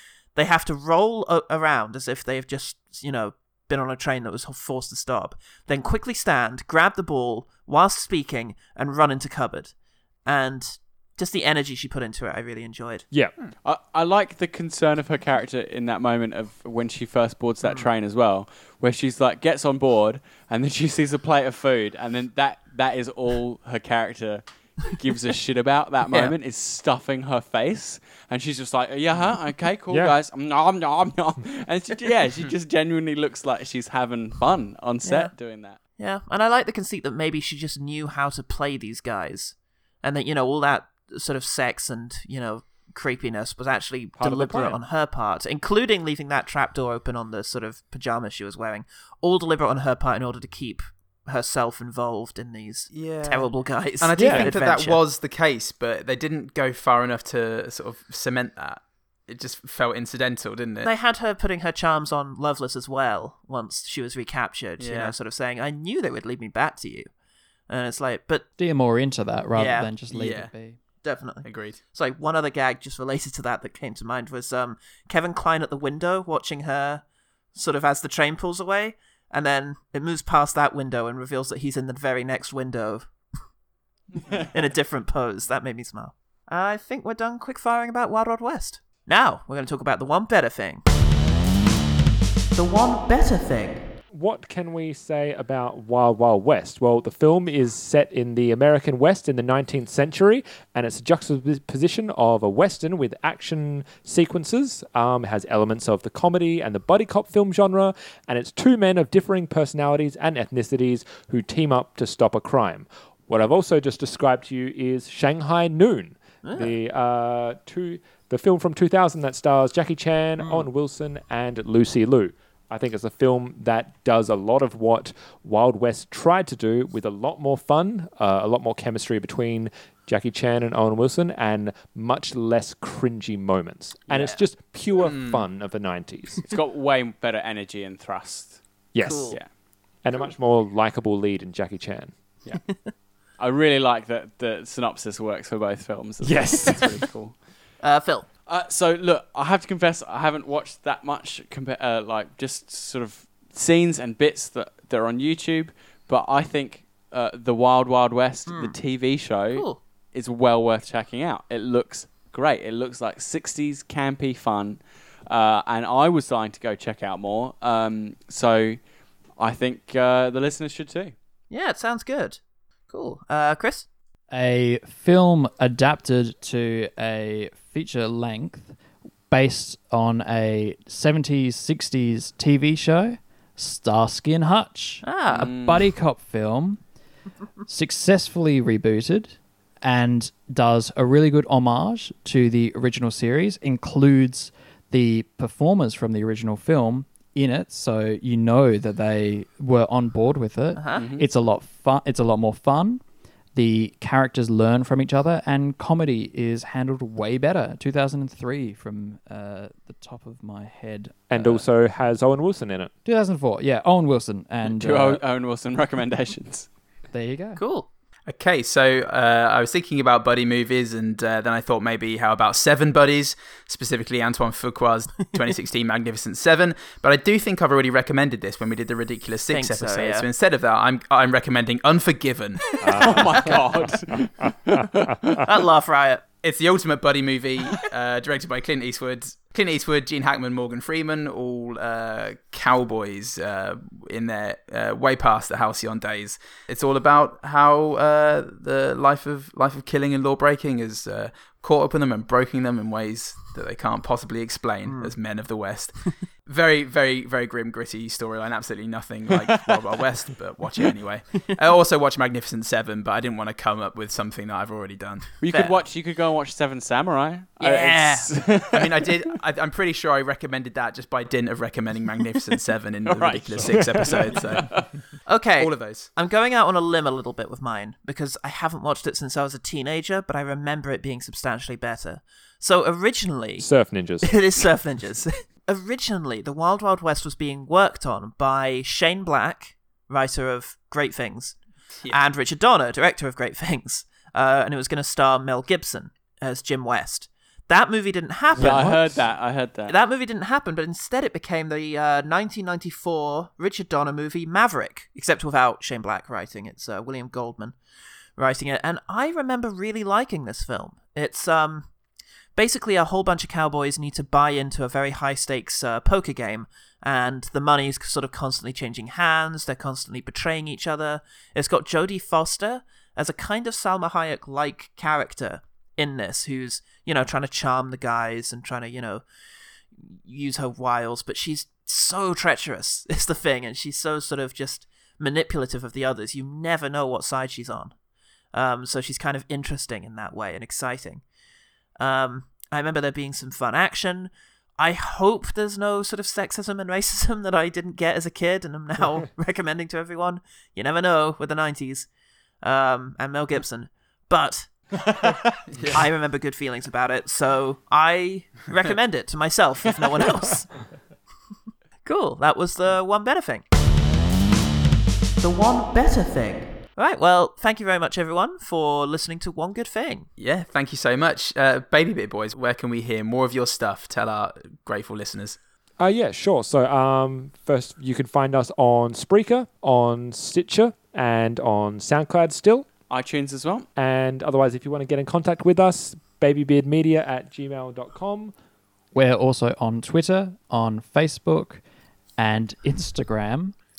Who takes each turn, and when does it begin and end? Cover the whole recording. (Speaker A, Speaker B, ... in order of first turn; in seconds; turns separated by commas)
Speaker A: 0.4-9.7, Speaker A: 10.3-13.1, Speaker B: 13.6-35.8, Speaker C: 29.9-30.1, Speaker A: 35.0-35.3, Speaker A: 36.0-55.0, Speaker C: 44.2-44.8, Speaker D: 52.9-53.5, Speaker D: 54.0-60.9, Speaker C: 54.2-54.5, Speaker A: 60.8-67.1, Speaker D: 64.8-65.1, Speaker A: 67.7-68.5, Speaker E: 68.6-70.8, Speaker A: 69.5-69.9, Speaker D: 70.1-70.5, Speaker A: 71.0-77.0, Speaker D: 71.4-71.8, Speaker A: 77.5-83.1, Speaker B: 84.2-84.5, Speaker A: 84.5-90.8, Speaker A: 92.5-93.8, Speaker C: 94.1-136.4, Speaker A: 116.4-116.7, Speaker A: 120.4-120.7, Speaker D: 135.0-135.4, Speaker B: 136.5-138.6, Speaker C: 138.9-139.4, Speaker A: 139.0-139.4, Speaker C: 140.0-142.2, Speaker A: 142.5-142.9, Speaker B: 143.4-147.4, Speaker C: 146.2-147.0, Speaker A: 147.8-148.3, Speaker B: 148.5-168.8, Speaker A: 158.5-158.8, Speaker A: 159.5-159.8, Speaker B: 169.4-171.2, Speaker A: 171.5-172.4, Speaker A: 172.9-173.9, Speaker E: 174.3-178.8, Speaker E: 179.3-186.8, Speaker A: 185.0-185.5, Speaker B: 185.3-186.0, Speaker E: 187.7-203.0, Speaker A: 200.8-201.0, Speaker B: 201.0-201.3, Speaker E: 203.6-211.6, Speaker C: 211.3-212.9, Speaker E: 213.1-215.2, Speaker B: 214.6-216.7, Speaker E: 217.1-217.6, Speaker A: 217.6-217.9, Speaker D: 218.3-232.7, Speaker A: 229.5-230.3, Speaker C: 232.8-233.6, Speaker A: 232.9-233.6, Speaker B: 232.9-235.4, Speaker A: 235.4-236.2, Speaker D: 236.4-265.3, Speaker A: 254.9-255.1, Speaker B: 265.4-269.0, Speaker A: 265.5-265.8, Speaker A: 267.6-268.3, Speaker D: 268.7-274.9, Speaker B: 273.1-274.8, Speaker C: 273.7-274.1, Speaker A: 275.3-283.7, Speaker D: 275.6-276.1, Speaker C: 283.6-284.4, Speaker A: 284.2-291.6, Speaker A: 292.1-299.0, Speaker C: 298.6-299.2, Speaker B: 298.6-299.9, Speaker A: 299.9-307.8, Speaker A: 308.4-311.9, Speaker A: 312.6-329.2, Speaker A: 330.0-337.9, Speaker A: 338.5-341.2, Speaker A: 342.0-352.1, Speaker A: 352.6-355.4, Speaker D: 355.7-356.1, Speaker A: 355.9-360.8, Speaker A: 362.1-363.6, Speaker A: 365.4-370.3, Speaker D: 370.4-375.6, Speaker C: 376.0-382.9, Speaker B: 383.1-383.9, Speaker C: 384.0-388.5, Speaker E: 389.1-391.8, Speaker E: 392.4-393.8